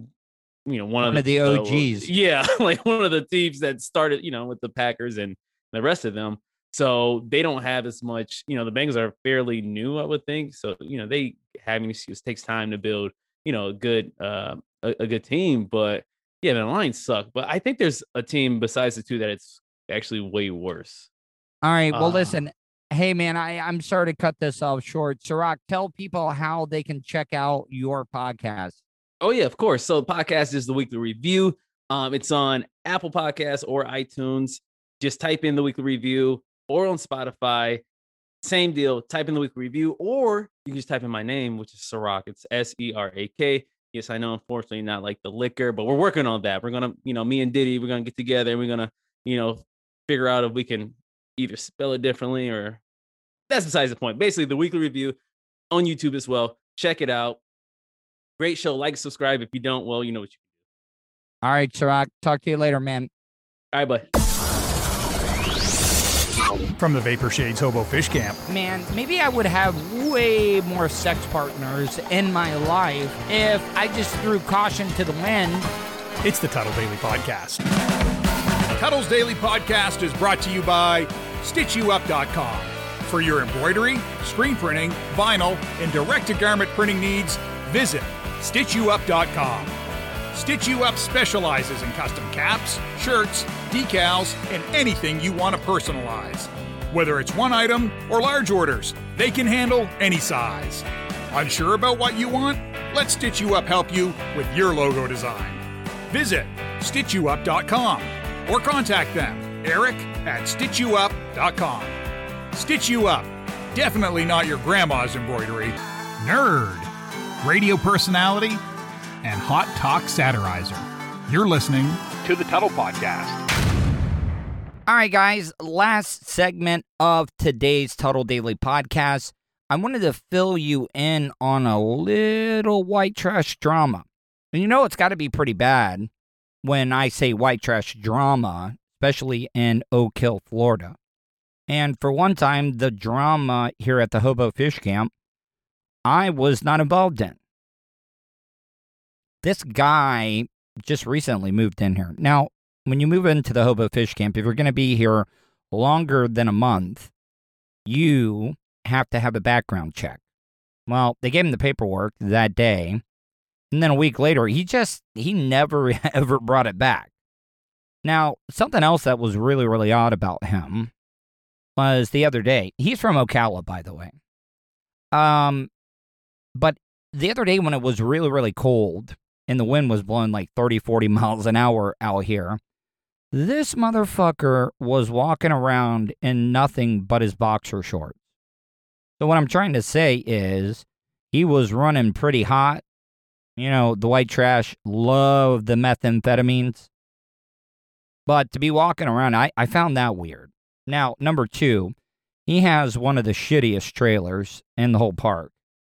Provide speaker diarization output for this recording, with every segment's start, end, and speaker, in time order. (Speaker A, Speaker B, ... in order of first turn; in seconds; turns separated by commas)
Speaker A: 0.7-21.1, Speaker B: 1.0-2.1, Speaker B: 21.6-28.8, Speaker A: 21.9-22.4, Speaker A: 29.2-37.8, Speaker A: 38.4-52.8, Speaker A: 53.5-55.2, Speaker A: 55.7-57.4, Speaker A: 58.4-60.4, Speaker B: 61.4-63.1, Speaker A: 63.7-64.0, Speaker C: 66.8-68.4, Speaker B: 68.5-75.7, Speaker C: 76.2-77.6, Speaker C: 78.7-89.7, Speaker C: 90.3-111.9, Speaker C: 112.5-116.9, Speaker C: 117.4-118.6, Speaker C: 119.2-123.4, Speaker B: 124.8-136.1, Speaker B: 136.6-140.9, Speaker B: 141.7-145.1, Speaker B: 146.1-147.4, Speaker B: 149.4-157.1, Speaker B: 157.8-160.2, Speaker B: 160.9-163.0, Speaker B: 163.7-167.1, Speaker B: 168.0-170.9, Speaker B: 171.8-174.2, Speaker B: 175.1-175.7, Speaker B: 176.5-182.6, Speaker B: 183.3-188.2, Speaker B: 189.2-192.8, Speaker B: 193.6-196.9, Speaker B: 198.3-201.9, Speaker B: 202.5-205.5